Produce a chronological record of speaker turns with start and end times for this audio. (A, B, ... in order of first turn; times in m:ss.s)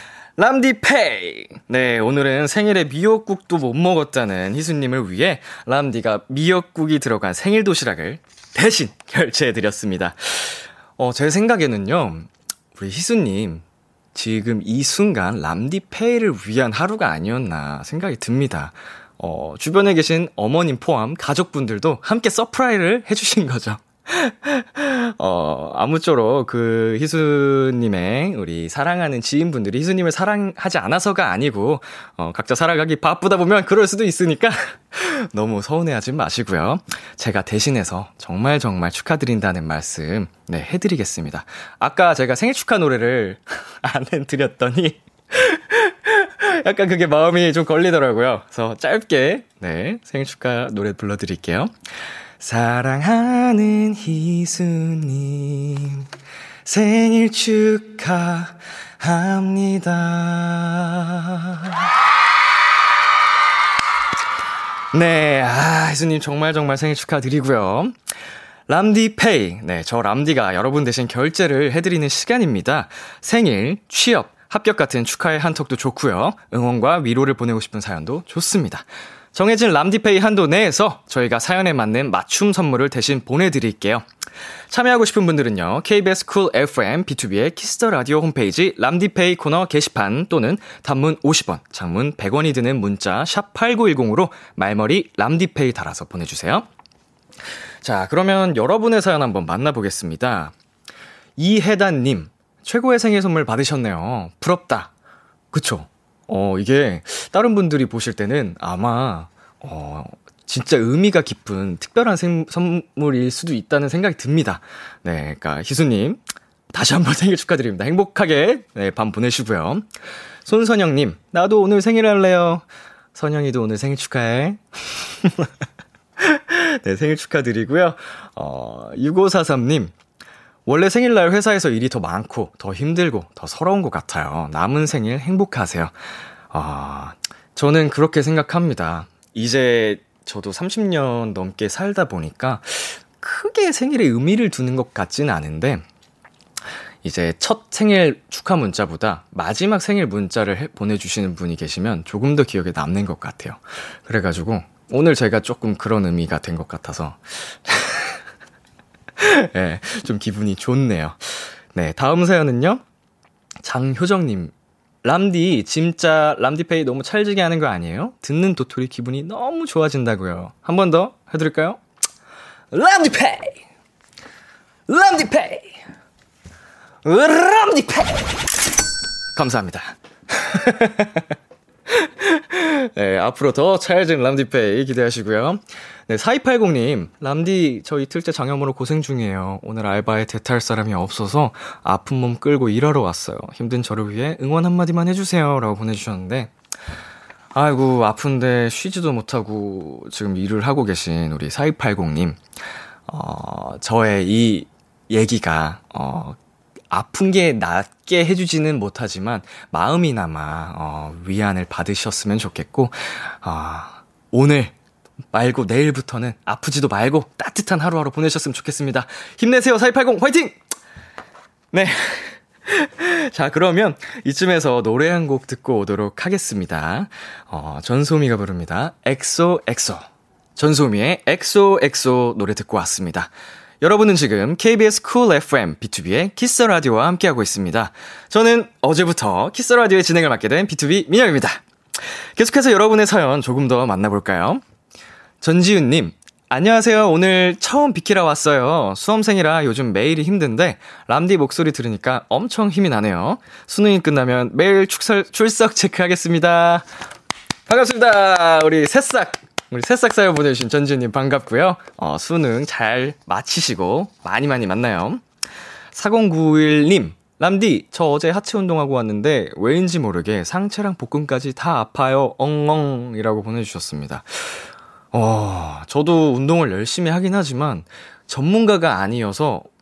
0:00.4-0:13.6 A
0:14.1-0:51.7 A
0:52.4-0:56.0 A
0:56.6-1:01.7 A
1:04.9-1:08.0 A
1:08.7-1:24.0 A
1:24.7-1:36.7 A
1:37.8-1:40.5 A
1:41.4-1:44.9 A
1:45.5-1:56.2 A
1:56.7-1:59.8 A
2:00.4-2:05.5 A
2:06.2-2:09.9 A
2:10.6-2:15.9 A
2:16.5-2:25.8 A
2:27.0-2:38.2 A
2:39.2-2:42.8 A
2:43.6-2:44.5 A
2:45.0-2:51.8 A
2:52.7-2:53.6 A
2:54.9-2:55.7 A
2:57.0-2:58.5 A
2:59.3-3:01.2 A
3:01.9-3:16.5 A
3:17.5-3:22.4 A
3:23.1-3:26.4 A
3:26.9-3:34.7 A
3:35.3-3:40.6 A
3:41.7-3:50.0 A
3:50.6-4:01.6 A
4:02.4-4:04.6 A
4:05.4-4:16.8 A
4:17.7-4:25.2 A
4:25.9-4:39.7 A